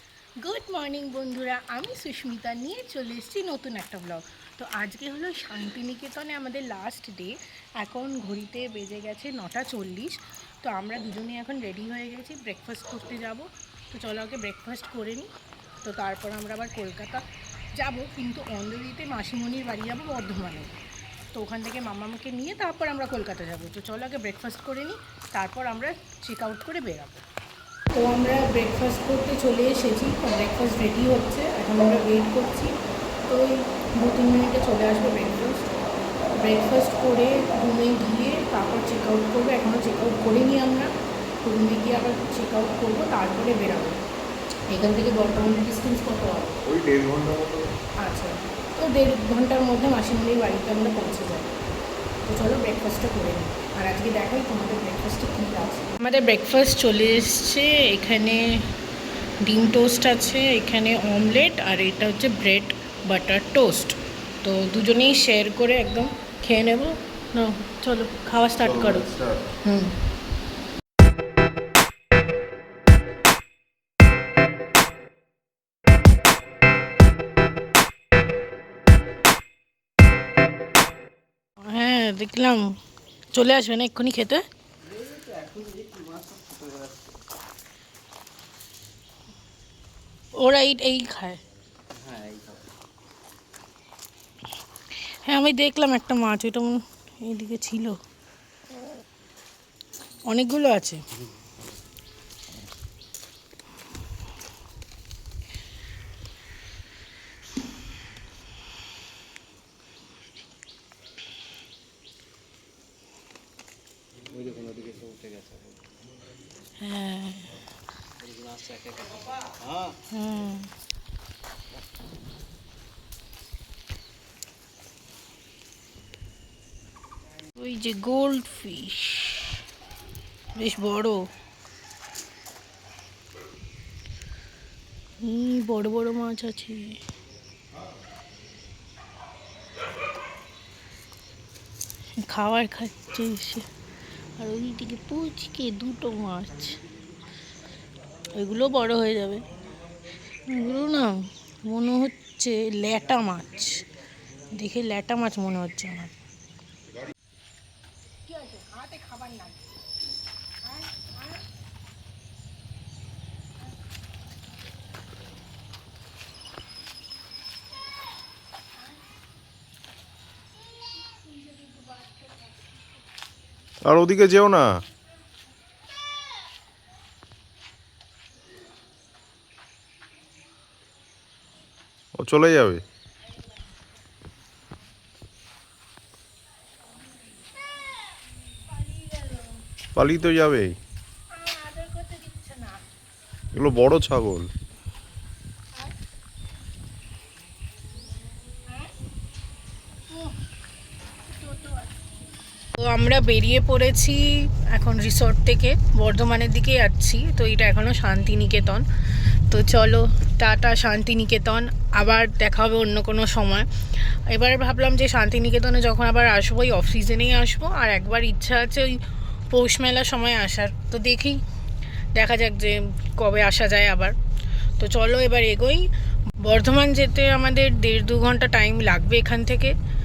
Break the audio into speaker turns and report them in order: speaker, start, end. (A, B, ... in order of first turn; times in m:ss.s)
0:00.4-0:15.3 A
0:15.8-0:20.8 A
0:21.3-0:27.2 A
0:27.9-0:32.7 A
0:33.2-0:35.7 A
0:36.3-0:40.9 A
0:41.4-0:44.0 A
0:44.7-0:46.6 A
0:46.7-0:47.7 B
0:48.0-0:51.5 A
0:52.2-0:58.7 A
0:59.4-1:09.1 A
1:08.6-1:09.5 B
1:09.6-1:09.9 A
1:21.6-1:22.8 A
1:23.3-1:24.4 A
1:24.9-1:27.0 C
1:30.4-1:31.4 A
1:32.0-1:32.6 C
1:35.0-1:38.0 A
1:40.3-1:41.0 A
1:54.4-1:55.7 C
1:56.8-1:57.5 A
1:58.2-1:59.8 C
2:00.1-2:00.7 A
2:07.6-2:09.6 A
2:10.5-2:11.3 A
2:15.2-2:17.0 A
2:22.2-2:23.7 A
2:24.4-2:26.8 A
2:28.3-2:29.4 A
2:30.4-2:33.8 A
2:34.5-2:36.1 A
2:38.2-2:39.6 A
2:40.6-2:41.4 A
2:53.8-2:54.8 B
3:02.2-3:02.8 B
3:08.7-3:09.5 A
3:09.9-3:10.8 B
3:11.3-3:12.8 A
3:13.5-3:14.5 B
3:20.1-3:20.3 A
3:21.3-3:21.9 A
3:22.7-3:28.8 A
3:29.5-3:41.4 A
3:42.1-3:44.2 A
3:44.8-3:49.7 A